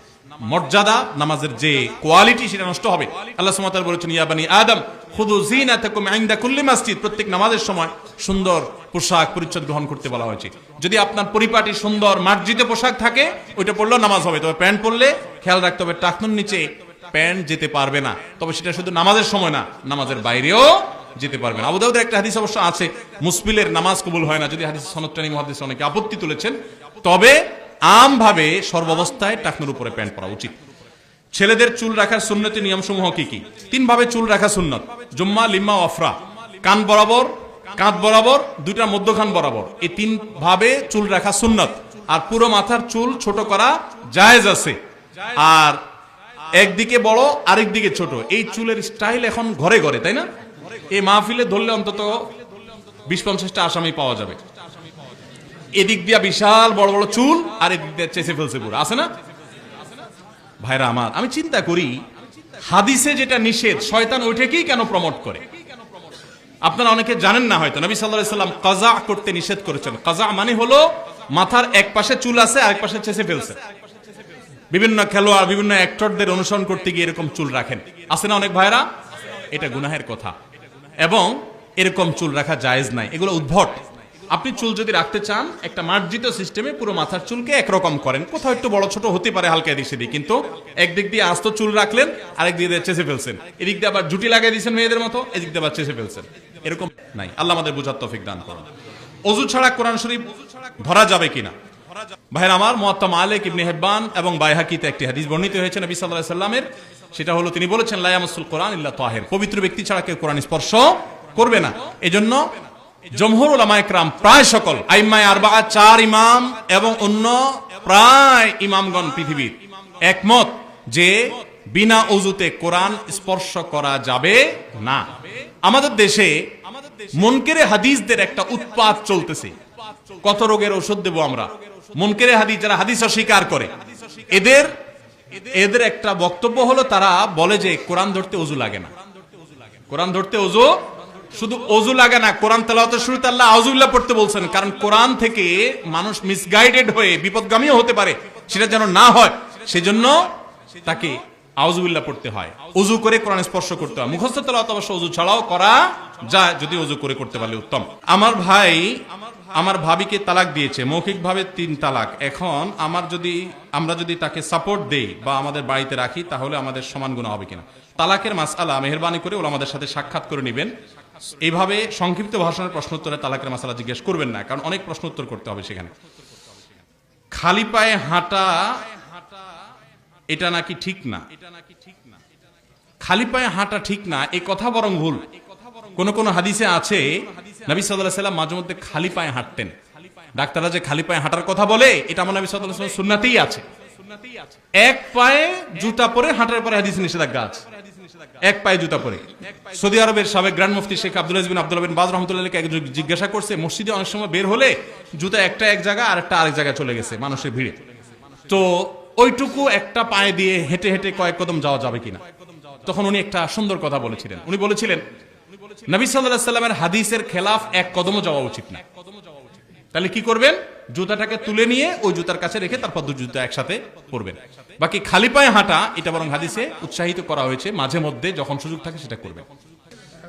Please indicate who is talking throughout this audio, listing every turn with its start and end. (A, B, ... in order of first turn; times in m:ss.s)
0:00.4-0:30.6 A
0:31.3-0:45.8 A
0:46.5-0:52.4 A
0:53.1-0:54.4 A
0:55.7-0:59.1 A
1:00.6-1:02.1 A
1:02.6-1:05.5 A
1:06.6-1:13.6 A
1:14.7-1:20.4 A
1:21.0-1:38.7 A
1:39.2-1:41.6 A
1:42.3-2:14.8 A
2:15.3-2:18.9 A
2:19.9-2:50.8 A
2:51.4-2:55.9 A
2:57.3-2:59.1 A
3:00.3-3:01.4 A
3:03.0-3:05.3 A
3:05.9-3:09.8 A
3:10.3-3:13.7 A
3:14.7-3:17.7 A
3:18.2-3:27.8 A
3:28.5-3:32.2 A
3:32.8-3:35.1 A
3:35.9-3:38.8 A
3:39.9-3:49.5 A